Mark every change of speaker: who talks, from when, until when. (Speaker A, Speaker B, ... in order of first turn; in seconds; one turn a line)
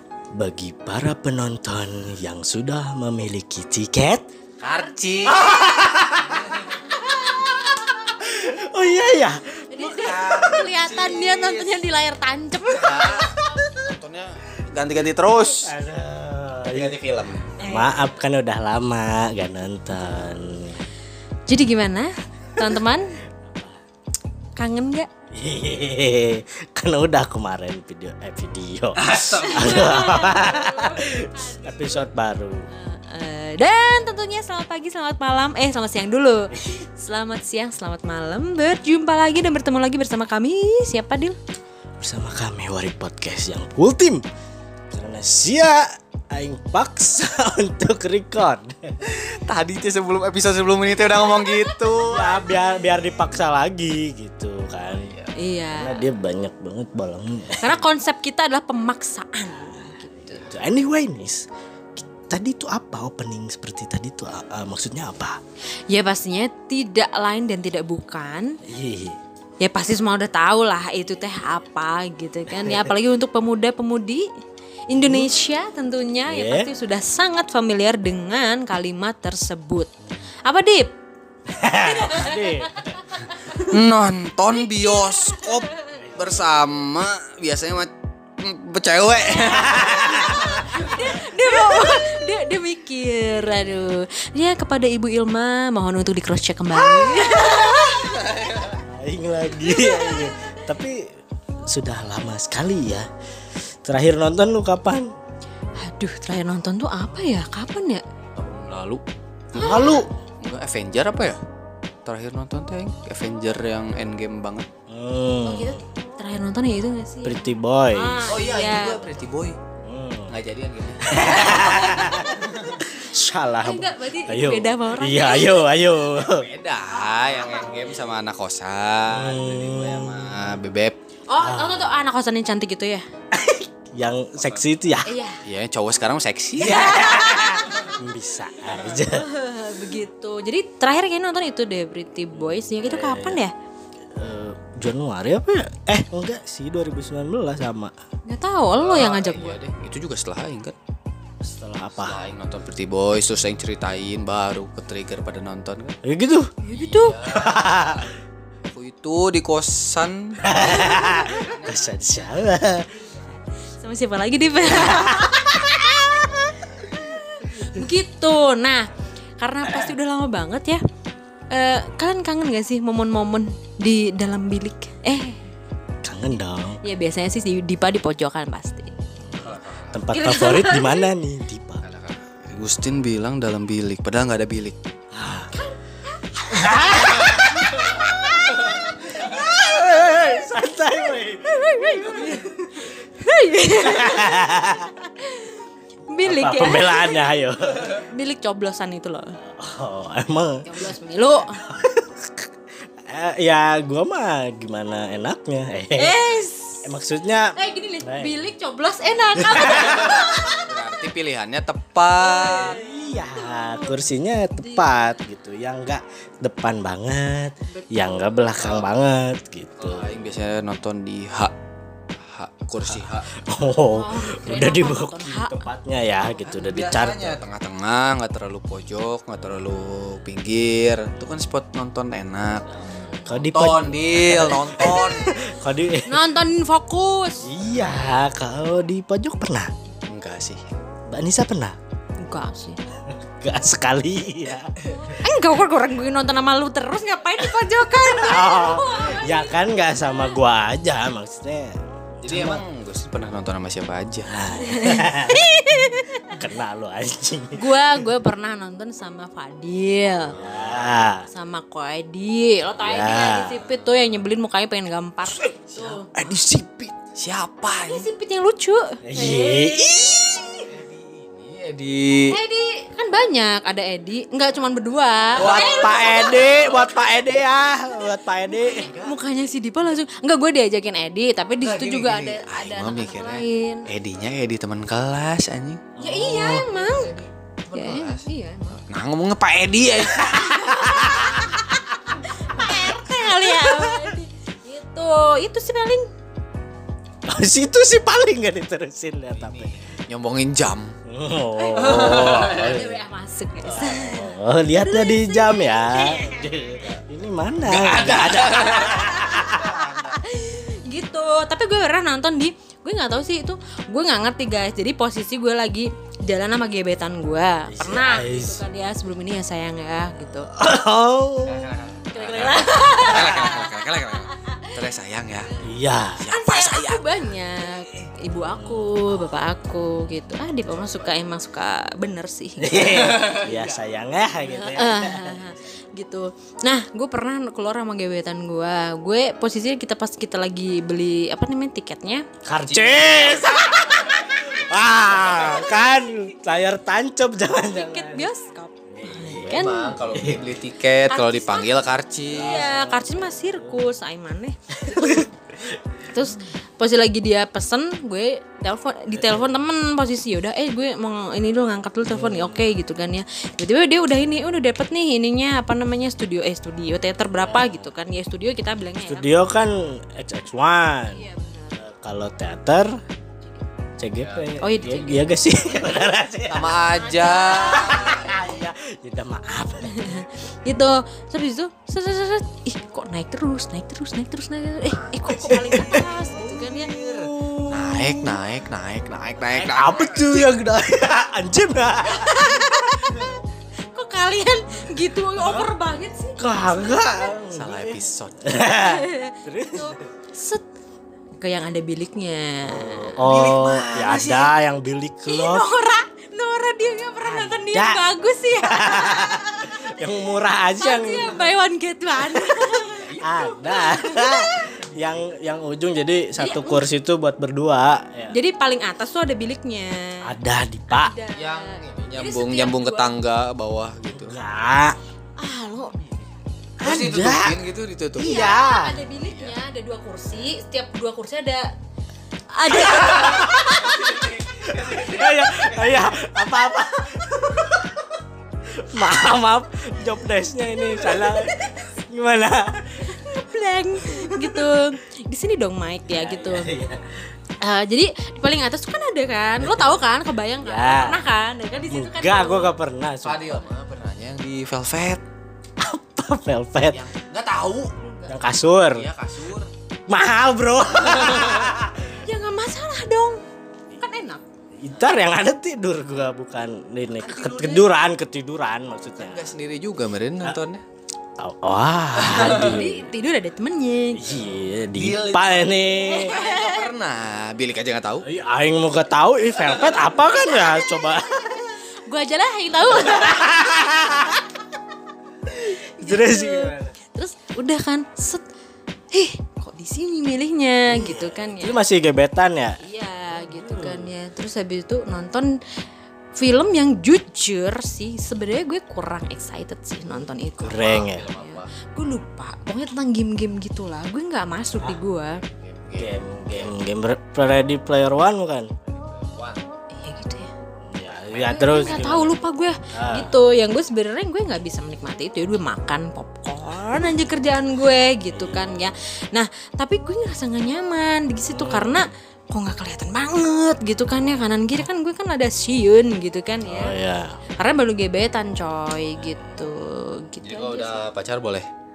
Speaker A: 0.4-4.3
Speaker B: 4.6-5.4
Speaker A: 5.2-6.8
Speaker C: 7.0-7.5
Speaker A: 8.1-10.6
Speaker C: 9.7-13.3
Speaker B: 9.9-11.8
Speaker B: 12.7-15.7
Speaker A: 13.2-13.7
Speaker A: 15.6-17.0
Speaker B: 16.7-17.5
Speaker C: 17.6-18.1
Speaker A: 17.6-20.8
Speaker C: 21.5-23.1
Speaker A: 23.4-23.8
Speaker C: 24.6-25.1
Speaker A: 25.3-32.7
Speaker B: 29.0-30.1
Speaker C: 29.4-32.1
Speaker C: 32.7-41.4
Speaker A: 36.5-36.8
Speaker A: 42.0-44.2
Speaker A: 44.9-49.1
Speaker B: 49.0-52.3
Speaker C: 51.5-52.9
Speaker A: 52.0-55.1
Speaker B: 54.9-55.3
Speaker C: 55.4-56.1
Speaker A: 55.7-57.8
Speaker C: 57.6-60.5
Speaker A: 60.3-65.4
Speaker C: 65.9-68.6
Speaker A: 68.7-69.2
Speaker C: 69.6-74.3
Speaker A: 72.5-72.9
Speaker C: 74.9-79.9
Speaker A: 75.0-75.3
Speaker A: 76.3-76.7
Speaker C: 80.5-80.9
Speaker A: 81.5-82.9
Speaker C: 81.7-83.6
Speaker B: 83.5-90.7
Speaker C: 84.7-85.4
Speaker A: 85.9-86.5
Speaker A: 89.5-91.9
Speaker C: 90.3-98.3
Speaker A: 96.8-98.1
Speaker B: 98.2-98.8
Speaker A: 98.8-101.0
Speaker C: 99.7-100.4
Speaker A: 101.7-103.1
Speaker A: 103.8-105.1
Speaker C: 105.8-108.0
Speaker B: 108.4-109.0
Speaker B: 109.5-111.4
Speaker A: 109.5-110.1
Speaker C: 109.6-110.0
Speaker B: 112.0-114.7
Speaker A: 114.9-115.8
Speaker C: 115.4-117.4
Speaker A: 117.2-118.4
Speaker C: 117.9-119.1
Speaker B: 118.3-119.6
Speaker A: 119.8-120.3
Speaker B: 120.3-121.8
Speaker A: 121.0-126.5
Speaker C: 121.3-122.3
Speaker B: 122.4-122.8
Speaker C: 123.6-125.7
Speaker B: 126.3-131.0
Speaker A: 129.1-130.4
Speaker C: 131.3-133.1
Speaker A: 131.4-131.9
Speaker A: 133.3-135.1
Speaker B: 134.4-134.7
Speaker C: 135.1-135.4
Speaker B: 135.4-136.9
Speaker A: 136.6-139.3
Speaker C: 136.6-137.6
Speaker C: 139.1-143.5
Speaker A: 142.3-143.4
Speaker A: 144.1-147.9
Speaker C: 148.3-149.6
Speaker B: 148.8-150.8
Speaker A: 151.4-152.2
Speaker B: 152.0-156.0
Speaker A: 156.0-156.5
Speaker C: 156.6-157.2
Speaker B: 156.7-158.1
Speaker A: 157.2-158.1
Speaker B: 158.6-162.4
Speaker A: 160.4-162.9
Speaker C: 160.6-161.5
Speaker C: 163.7-170.8
Speaker A: 164.8-165.4
Speaker C: 171.5-175.4
Speaker A: 176.0-176.8
Speaker C: 176.8-178.9
Speaker A: 179.1-181.8
Speaker B: 179.3-180.1
Speaker C: 180.1-181.1
Speaker B: 181.8-184.8
Speaker A: 185.1-185.5
Speaker C: 185.5-187.4
Speaker A: 186.5-192.9
Speaker B: 187.2-187.4
Speaker C: 191.5-197.3
Speaker A: 193.7-194.9
Speaker A: 196.2-197.9
Speaker C: 197.9-199.4
Speaker A: 199.4-200.8
Speaker C: 200.7-201.6
Speaker A: 201.6-202.5
Speaker A: 203.0-206.2
Speaker C: 206.0-206.9
Speaker A: 206.8-208.5
Speaker C: 207.6-210.6
Speaker A: 209.4-210.3
Speaker B: 209.7-212.8
Speaker C: 212.2-214.0
Speaker A: 212.4-220.2
Speaker C: 214.6-215.1
Speaker C: 217.7-218.4
Speaker B: 218.6-218.9
Speaker B: 219.8-221.5
Speaker B: 222.2-223.3
Speaker A: 222.9-227.4
Speaker C: 223.9-225.7
Speaker B: 226.5-232.7
Speaker C: 232.8-233.3
Speaker A: 233.2-236.3
Speaker B: 233.4-235.4
Speaker C: 236.1-237.5
Speaker A: 237.4-239.7
Speaker B: 237.7-238.0
Speaker B: 240.1-240.6
Speaker A: 241.1-241.8
Speaker C: 242.2-242.8
Speaker A: 243.1-244.7
Speaker C: 245.1-249.6
Speaker A: 248.0-252.6
Speaker B: 252.2-254.3
Speaker A: 254.3-255.5
Speaker C: 254.5-256.4
Speaker A: 256.3-257.6
Speaker C: 257.6-260.4
Speaker B: 260.3-260.9
Speaker A: 260.4-261.3
Speaker C: 261.3-266.1
Speaker A: 262.8-263.6
Speaker A: 265.3-266.9
Speaker B: 267.2-268.1
Speaker C: 267.8-270.2
Speaker A: 269.0-270.7
Speaker B: 270.7-272.3
Speaker C: 272.3-276.9
Speaker B: 275.4-276.6
Speaker A: 275.4-278.9
Speaker C: 278.5-283.9
Speaker B: 278.7-279.2
Speaker B: 281.6-285.9
Speaker A: 286.0-286.7
Speaker C: 286.0-287.1
Speaker B: 286.4-291.2
Speaker C: 287.7-288.8
Speaker C: 290.2-296.1
Speaker A: 290.3-291.8
Speaker A: 292.6-294.2
Speaker A: 297.3-299.7
Speaker B: 299.4-300.9
Speaker A: 301.1-303.0
Speaker C: 301.6-306.7
Speaker B: 301.8-302.8
Speaker A: 303.6-309.9
Speaker B: 307.6-310.2
Speaker C: 308.8-309.4
Speaker C: 309.9-320.5
Speaker A: 317.7-318.6
Speaker A: 320.5-321.8
Speaker B: 321.4-325.5
Speaker C: 322.1-323.8
Speaker A: 322.9-323.5
Speaker C: 324.3-324.7
Speaker A: 325.6-326.3
Speaker B: 326.2-327.1
Speaker C: 326.3-333.4
Speaker A: 328.5-329.2
Speaker B: 330.7-331.1
Speaker A: 332.6-335.5
Speaker B: 332.9-333.5
Speaker C: 334.4-342.3
Speaker A: 342.5-348.3
Speaker B: 342.7-343.6
Speaker B: 345.1-345.7
Speaker C: 347.6-349.9
Speaker A: 348.9-350.4
Speaker B: 349.4-352.7
Speaker C: 351.1-355.3
Speaker A: 352.3-353.8
Speaker A: 354.7-355.8
Speaker C: 356.1-369.3
Speaker A: 359.1-359.5
Speaker A: 362.1-362.7
Speaker A: 367.4-367.8
Speaker A: 369.0-371.2
Speaker C: 371.1-371.8
Speaker A: 371.8-372.9
Speaker A: 374.0-376.8
Speaker B: 374.2-374.6
Speaker C: 374.6-375.3
Speaker B: 376.5-378.1
Speaker C: 377.0-378.5
Speaker A: 377.5-380.3
Speaker C: 379.9-386.9
Speaker A: 385.3-388.4
Speaker B: 386.9-390.5
Speaker A: 389.5-393.3
Speaker C: 392.1-393.3
Speaker C: 393.9-397.2
Speaker A: 396.4-400.1
Speaker B: 397.5-398.5
Speaker C: 398.7-400.6
Speaker C: 401.4-403.2
Speaker A: 402.6-405.7
Speaker B: 403.2-404.5
Speaker C: 405.3-409.8
Speaker A: 407.2-411.4
Speaker C: 410.8-414.7
Speaker B: 413.0-413.3
Speaker A: 413.2-418.4
Speaker C: 416.4-416.8
Speaker C: 418.3-420.2
Speaker A: 420.2-421.1
Speaker C: 420.9-423.2
Speaker B: 421.3-424.4
Speaker A: 424.1-425.0
Speaker C: 425.4-425.9
Speaker B: 425.9-426.2
Speaker B: 426.8-428.4
Speaker A: 426.8-427.6
Speaker A: 428.2-428.9
Speaker C: 428.2-431.7
Speaker B: 429.2-429.6
Speaker C: 432.5-434.3
Speaker A: 432.8-433.9
Speaker B: 433.0-435.3
Speaker A: 434.6-443.1
Speaker C: 443.1-446.7
Speaker A: 444.1-444.6
Speaker A: 446.1-447.2
Speaker C: 447.6-452.7
Speaker A: 449.6-449.9
Speaker A: 450.6-451.2
Speaker A: 451.9-453.6
Speaker B: 453.2-455.2
Speaker A: 455.8-457.0
Speaker B: 456.9-457.9
Speaker C: 458.0-458.4
Speaker A: 458.3-459.1
Speaker B: 458.9-459.7
Speaker A: 460.1-462.2
Speaker C: 462.2-463.4
Speaker C: 464.0-464.4
Speaker A: 464.8-469.5
Speaker B: 467.1-467.9
Speaker B: 469.2-470.8
Speaker A: 471.4-473.1
Speaker C: 472.2-474.2
Speaker B: 472.3-472.7
Speaker A: 474.1-476.4
Speaker B: 474.4-478.3
Speaker C: 476.0-476.9
Speaker A: 478.2-481.8
Speaker C: 482.1-484.3
Speaker A: 482.8-484.5
Speaker A: 485.5-486.9
Speaker C: 485.7-488.4
Speaker C: 489.1-491.8
Speaker A: 490.9-492.8
Speaker C: 492.8-495.6
Speaker A: 493.3-494.1
Speaker C: 496.4-505.4
Speaker B: 500.6-501.7
Speaker A: 500.7-501.3
Speaker B: 505.4-506.8
Speaker A: 506.0-508.7
Speaker B: 508.9-509.6
Speaker C: 509.9-510.5
Speaker A: 510.9-512.4
Speaker B: 511.0-512.1
Speaker C: 511.5-527.0
Speaker A: 512.9-513.4
Speaker A: 518.3-518.9
Speaker A: 521.5-522.0
Speaker A: 526.7-527.4
Speaker C: 527.6-531.0
Speaker B: 530.4-531.7